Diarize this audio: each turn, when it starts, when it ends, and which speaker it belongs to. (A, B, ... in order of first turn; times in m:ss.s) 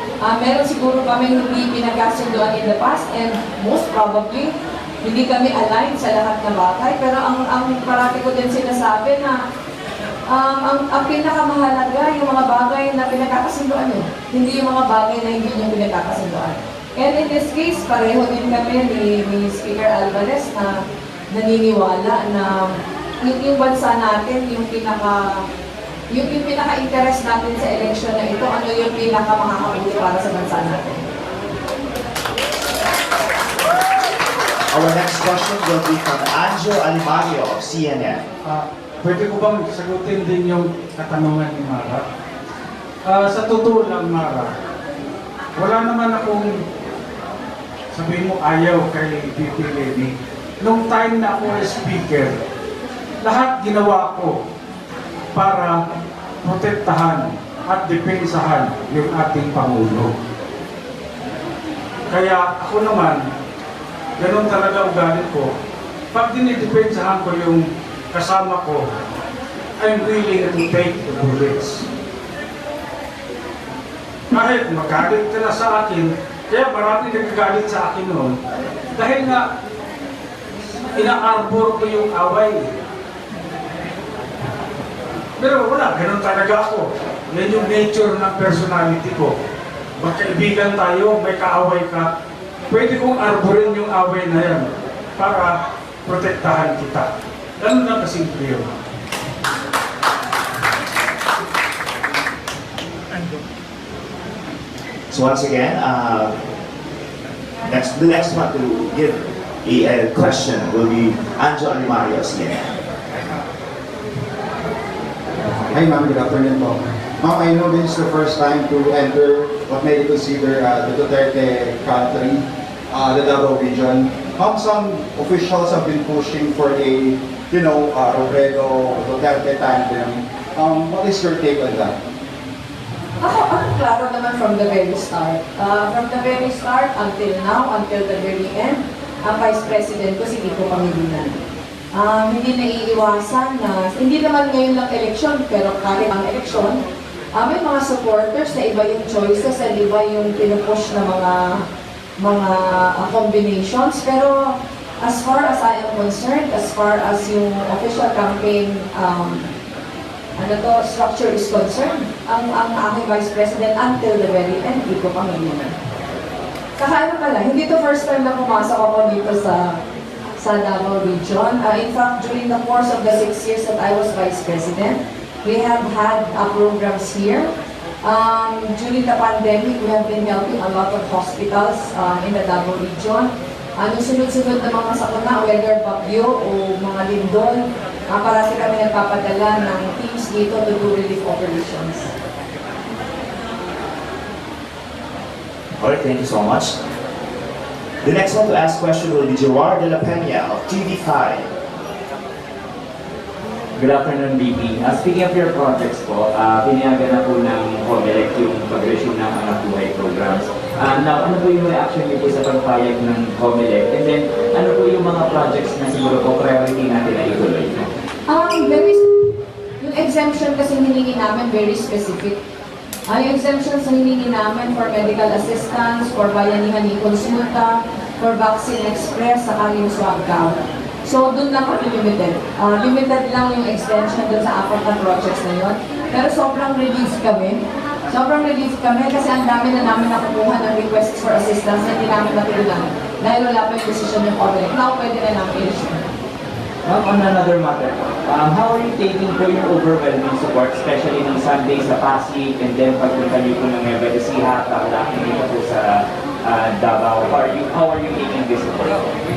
0:00.2-0:04.5 A
0:05.0-0:09.4 A
0:10.3-0:20.7 A
0:21.3-0:22.7 A
0:23.2-0:25.2 A
0:26.1-0:31.0 A
0:34.7-0:38.2 B
0:38.5-0:42.0 C
0:43.1-0:44.5 C
0:45.6-0:46.5 C
0:47.9-0:52.4 C
0:53.2-0:54.4 C
0:55.4-0:55.8 C
0:56.4-1:00.1 C
1:02.1-1:03.2 C
1:04.2-1:05.5 C
1:06.1-1:08.9 C
1:09.8-1:11.9 C
1:14.3-1:18.4 C
1:19.0-1:19.4 C
1:21.0-1:22.7 C
1:25.4-1:29.4 C
1:30.0-1:32.1 C
1:32.7-1:37.1 C
1:37.6-1:38.7 C
1:45.1-1:46.3 B
1:47.7-1:52.7 B
1:55.7-2:11.9 D
2:13.2-2:21.4 A
2:22.0-2:26.8 A
2:27.4-2:31.6 A
2:32.2-2:34.5 A
2:35.0-2:39.5 A
2:40.4-2:45.8 A
2:46.8-2:49.8 A
2:50.4-2:57.5 A
2:58.0-3:12.1 A
3:15.8-3:16.7 B
3:18.0-3:21.5 B
3:23.8-3:37.9 E
3:38.3-3:39.1 A
3:39.8-3:42.4 A
3:43.1-3:57.6 A
3:58.1-4:06.0 A
4:06.8-4:19.1 E